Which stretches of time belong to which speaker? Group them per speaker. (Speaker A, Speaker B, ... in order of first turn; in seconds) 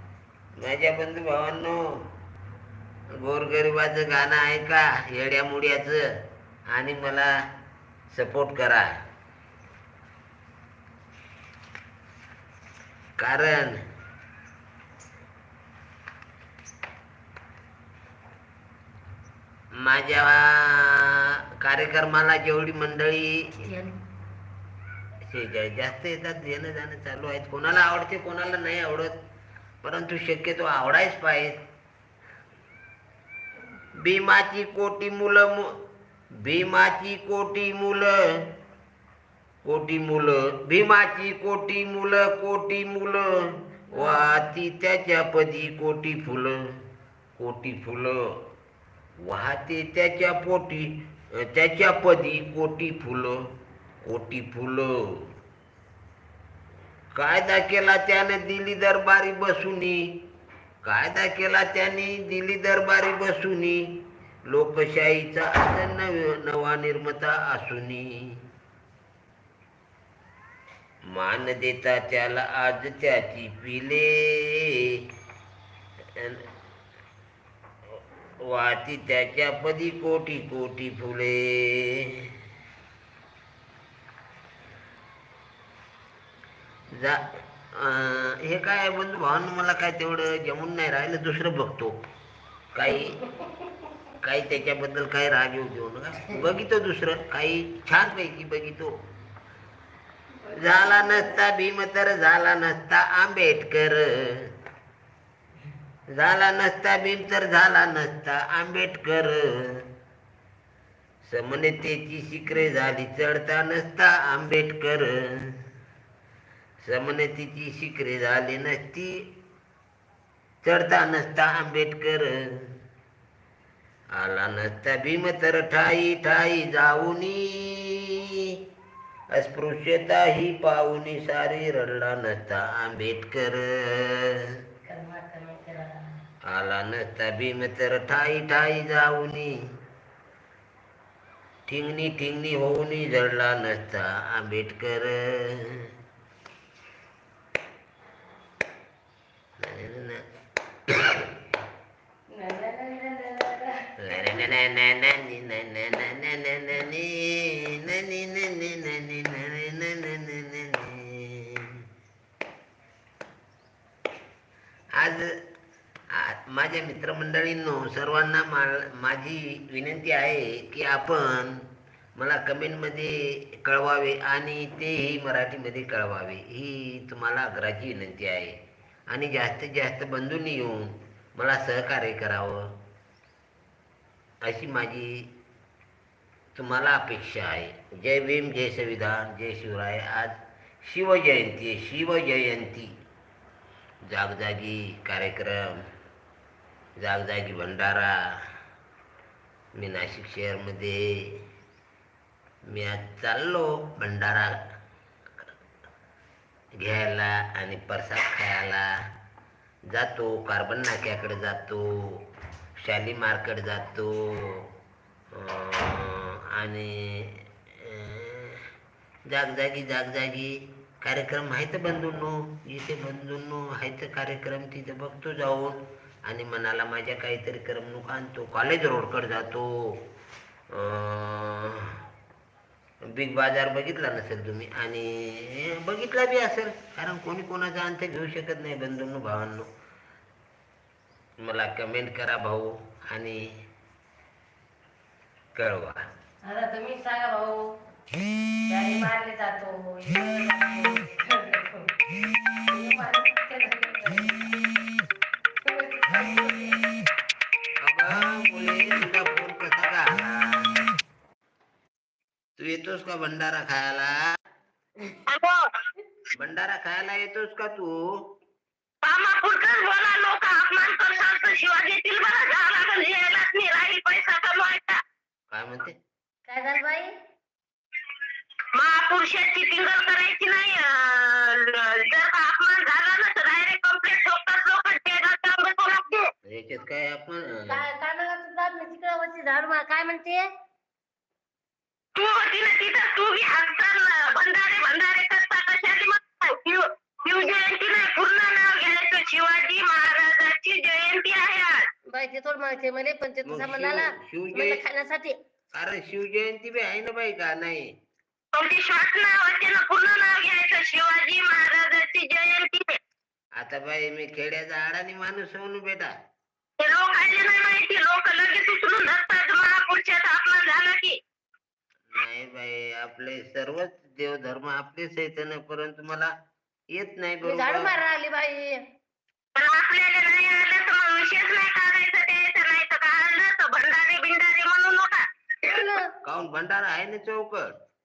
Speaker A: 0.6-1.9, 3.2-6.0, 6.7-7.3, 8.1-8.9, 13.2-13.8, 19.8-23.6, 25.3-29.1, 29.8-31.6, 34.0-35.7, 36.4-38.2, 39.6-43.3, 43.9-46.6, 47.4-48.2, 49.2-53.4, 54.0-55.0, 57.1-60.0, 60.8-63.8, 64.5-68.4, 71.1-74.9, 76.2-76.4, 78.4-82.3, 86.9-92.0, 92.7-93.2, 94.2-98.9, 100.5-104.5, 106.1-109.9, 111.2-115.6, 116.8-119.2, 120.6-122.7, 124.1-128.6, 129.3-134.4, 136.5-139.5, 141.7-145.9, 149.6-150.2, 150.9-151.2, 154.0-161.8, 165.0-165.3, 166.1-171.6, 172.2-178.6, 179.1-182.6, 184.4-185.2, 186.6-192.9, 194.1-195.8, 197.0-198.2, 199.8-201.4, 202.7-204.5, 206.8-208.9, 209.9-212.2, 212.8-214.7, 215.3-218.7, 219.3-229.9, 230.7-232.0, 233.1-239.7, 241.4-243.5, 245.6-246.1, 257.8-260.9, 262.6-264.2, 266.3-268.0, 275.5-275.9, 286.5-287.9, 303.4-304.8, 305.7-307.9, 313.6-316.1, 322.1-326.3, 326.9-327.9, 336.2-337.7
Speaker B: 23.6-23.9, 43.9-44.3, 100.5-101.4, 134.9-136.2, 152.3-154.3, 246.4-247.7, 248.7-251.9, 252.7-254.6, 255.6-256.9, 276.5-277.1, 287.7-290.5, 302.1-305.3, 327.4-328.8, 335.6-336.1
Speaker C: 265.3-265.6, 269.0-275.0, 278.7-286.3, 292.2-301.9, 308.5-313.0, 316.8-321.2, 329.6-335.9